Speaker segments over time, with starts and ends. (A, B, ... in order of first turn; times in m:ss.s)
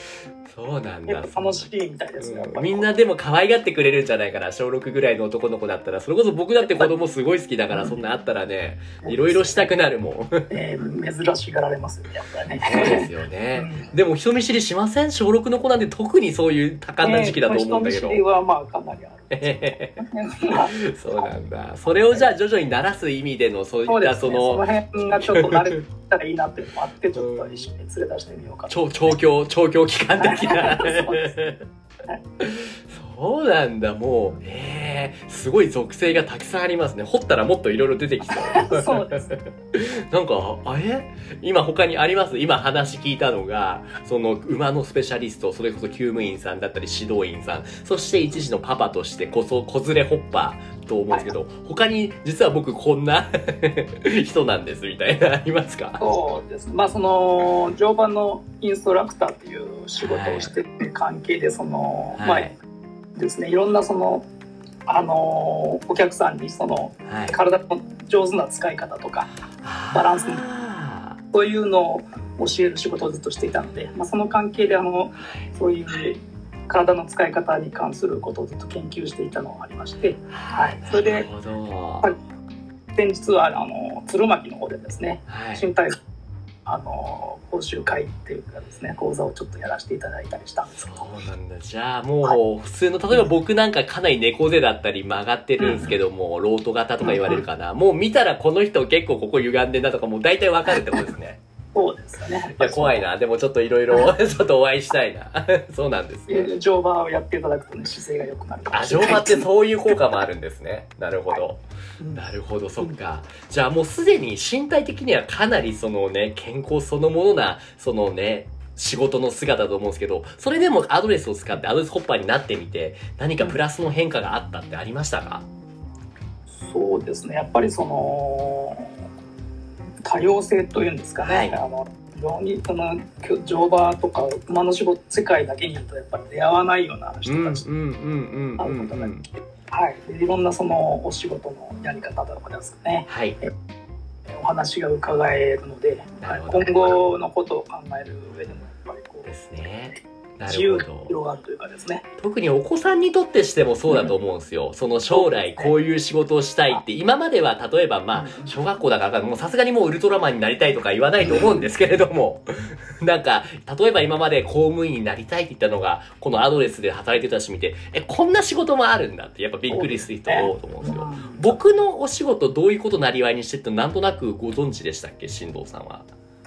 0:00.4-0:01.7 A
0:01.1-0:02.9 B
0:02.2-0:10.5 A
0:06.6-0:06.9 B
0:07.7-0:08.0 B
0:09.0-0:09.7 B
0:10.5-0:13.9 B
0:12.5-0:18.2 A
0:17.0-0:21.3 B
0:19.3-0:24.7 A
0:23.9-0:29.2 B
0:25.2-0:25.7 A
0:27.2-0:27.7 A
0:28.7-0:31.6 A
0:30.2-0:31.4 B
0:32.4-0:56.0 A
0:38.3-0:39.4 B
0:56.0-1:02.5 B
1:00.0-1:00.5 A
1:02.2-1:02.6 A
1:03.2-1:04.2 B
1:04.9-1:09.3 B
1:07.1-1:07.4 A
1:09.6-1:11.2 A
1:09.9-1:10.4 B
1:11.3-1:21.3 B
1:15.2-1:15.5 A
1:20.3-1:22.1 A
1:22.9-1:26.0 B
1:25.3-1:25.7 A
1:26.7-1:30.8 B
1:30.8-1:41.4 A
1:35.6-1:36.0 B
1:37.0-1:37.4 B
1:40.7-1:41.1 B
1:41.8-1:43.1 B
1:42.6-1:46.5 A
1:46.3-1:49.5 B
1:48.7-1:51.6 A
1:52.0-1:52.2 B
1:52.1-2:05.5 A
2:06.5-2:09.0 B
2:10.0-2:17.7 B
2:11.2-2:11.6 A
2:17.2-2:19.3 A
2:18.6-2:23.5 B
2:23.1-2:23.4 A
2:24.3-2:29.3 B
2:26.2-2:26.9 A
2:29.2-2:31.1 A
2:30.5-2:32.0 B
2:32.2-2:56.1 A
2:35.1-2:35.8 B
2:38.2-2:38.5 B
2:41.2-2:41.6 B
2:49.7-2:51.6 B